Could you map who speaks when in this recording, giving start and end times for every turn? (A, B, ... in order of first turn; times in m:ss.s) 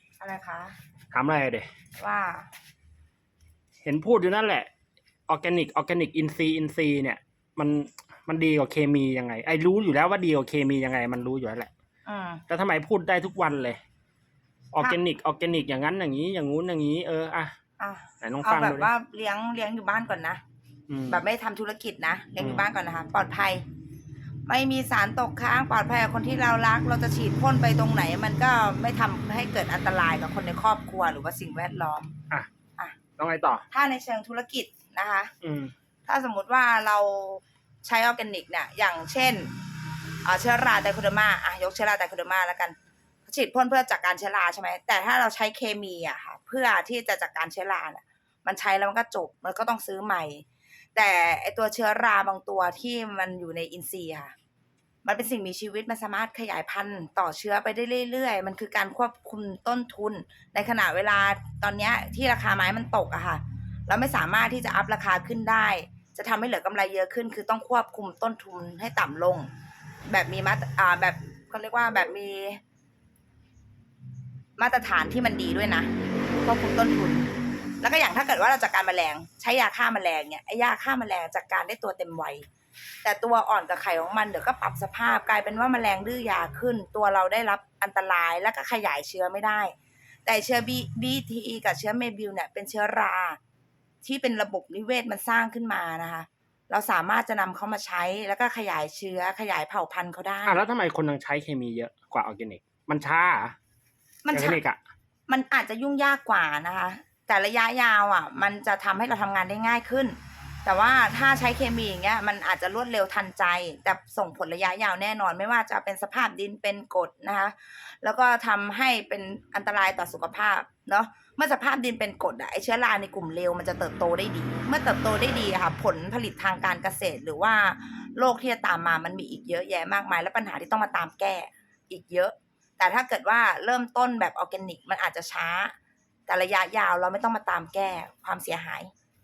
0:00.2-0:00.8 A
0:01.1-0:01.7 B
0:02.0-0:02.5 A
0:03.8-0:04.7 B
0:05.3-0:11.7 B
0:12.0-0:12.4 A
0:12.5-0:13.8 B
0:14.7-0:17.5 B
0:17.8-0:20.4 A
0:18.2-0:18.9 B
0:20.9-0:21.2 B
0:21.1-0:23.6 A
0:22.4-0:22.6 B
0:24.4-0:32.1 A
0:33.2-0:33.6 B
0:33.7-0:35.3 A
0:35.4-0:35.7 B
0:36.0-0:39.6 A
0:40.2-0:42.8 A
0:43.3-0:54.3 A
0:55.0-1:09.5 A
1:10.1-1:12.6 A
1:14.6-1:15.9 A
1:16.4-1:22.4 A
1:23.0-1:33.4 A
1:34.0-1:40.6 A
1:40.4-1:43.5 B
1:44.2-1:44.6 A
1:44.3-1:44.8 B
1:45.3-2:15.7 A
2:16.3-2:18.9 A